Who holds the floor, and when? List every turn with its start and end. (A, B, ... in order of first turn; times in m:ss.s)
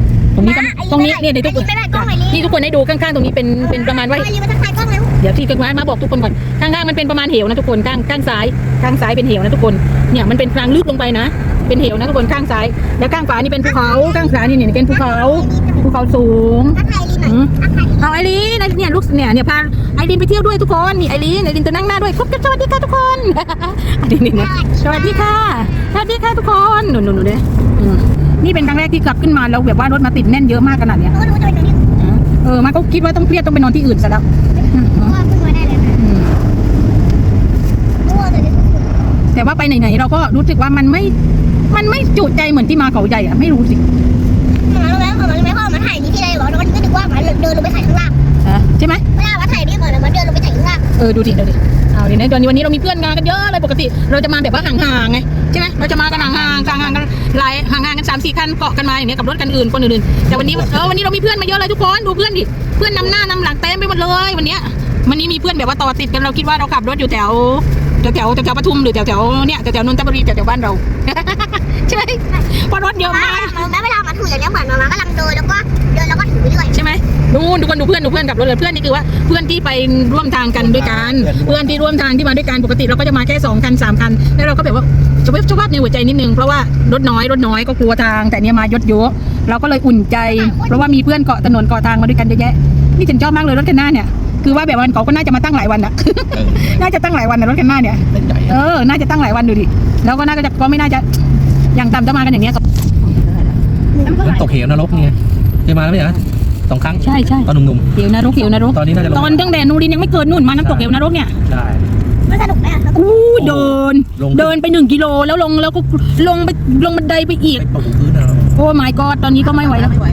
0:00.3-0:04.3 A
0:00.4-0:02.6 B
0:03.6-0:05.1 B
0:05.2-0:31.1 A
0:13.6-0:15.9 B
0:16.7-0:18.1 B
0:24.3-0:25.9 B
0:31.1-0:31.8 B
0:32.0-0:35.1 A
0:34.6-0:36.0 B
0:36.0-0:36.3 A
0:38.0-0:38.9 B
0:39.3-0:41.1 A
0:41.7-0:43.8 A
0:44.6-0:48.1 B
0:48.4-0:49.0 A
0:49.1-0:50.8 B
0:51.0-1:13.6 A
0:56.3-0:56.8 C
1:00.3-1:00.6 C
1:13.0-1:16.8 B
1:16.7-1:41.0 A
1:20.6-1:21.7 C
1:30.2-1:31.0 B
1:36.3-1:36.7 C
1:38.1-1:38.5 C
1:41.7-1:42.6 A
1:44.0-1:44.3 B
1:44.1-1:47.8 C
1:47.0-1:51.3 A
1:48.7-1:49.4 C
1:51.5-1:51.8 C
1:52.2-1:53.1 B
1:52.9-1:57.7 A
1:53.4-1:54.5 C
1:57.6-1:58.5 C
1:58.5-2:00.0 A